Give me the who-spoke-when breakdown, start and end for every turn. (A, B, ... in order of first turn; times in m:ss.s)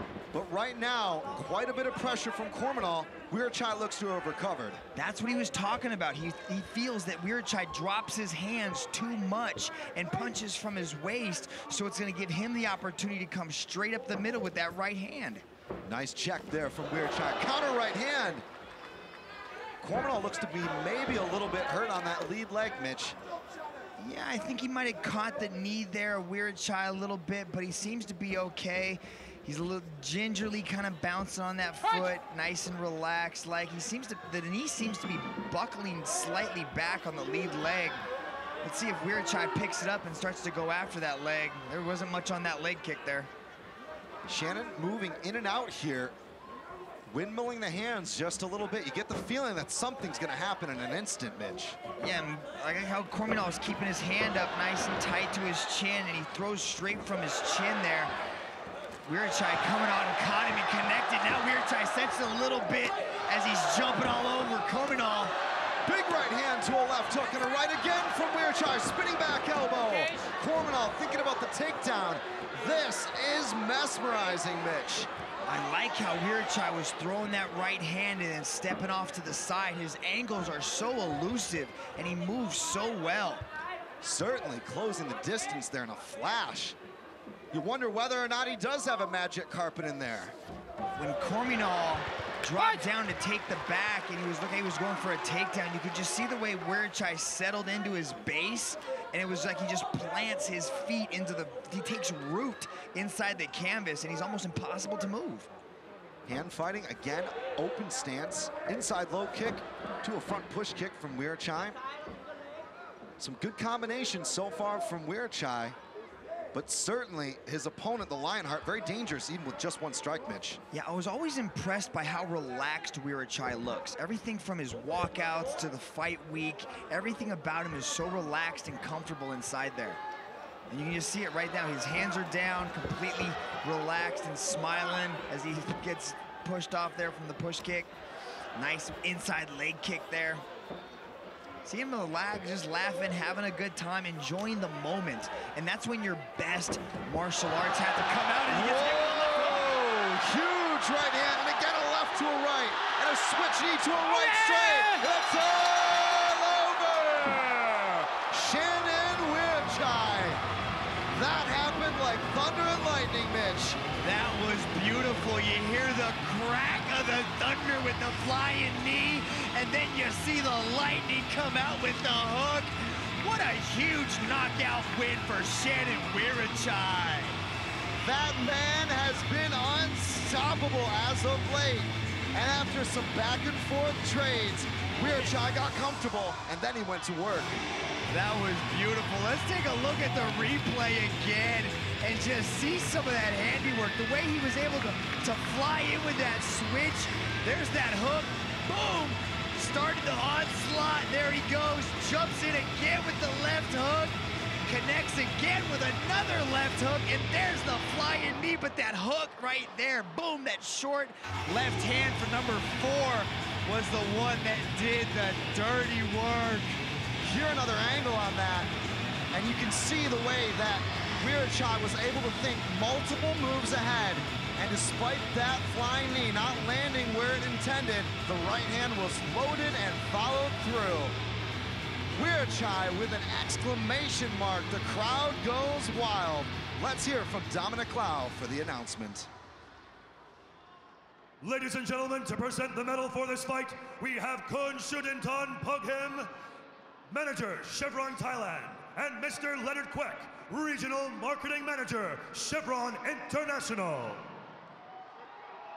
0:00.3-0:04.8 A
0:04.9-0:15.4 B
0:15.8-0:18.4 A
0:19.8-0:23.2 A
0:24.0-0:38.0 B
0:38.6-0:43.3 B
0:44.2-0:46.1 A
0:47.1-0:51.8 A
0:52.0-0:58.1 B
0:59.0-1:05.3 B
1:05.8-1:15.1 A
1:15.5-1:23.4 B
1:24.0-1:26.8 A
1:27.5-1:30.3 A
1:31.0-1:45.5 B
1:46.2-1:51.8 A
1:53.2-1:55.8 A
1:56.5-2:00.6 A
2:00.7-2:10.0 B
2:10.7-2:17.9 B
2:18.5-2:20.4 B
2:21.6-2:29.6 B
2:28.5-2:40.4 A
2:34.2-2:34.9 B
2:41.1-2:43.8 A
2:44.0-2:57.4 B
2:58.0-3:07.6 A
3:08.1-3:36.8 B
3:37.2-3:38.7 A
3:39.3-3:51.2 A
3:52.1-3:59.3 A
4:01.4-4:06.3 C
4:07.1-4:14.3 C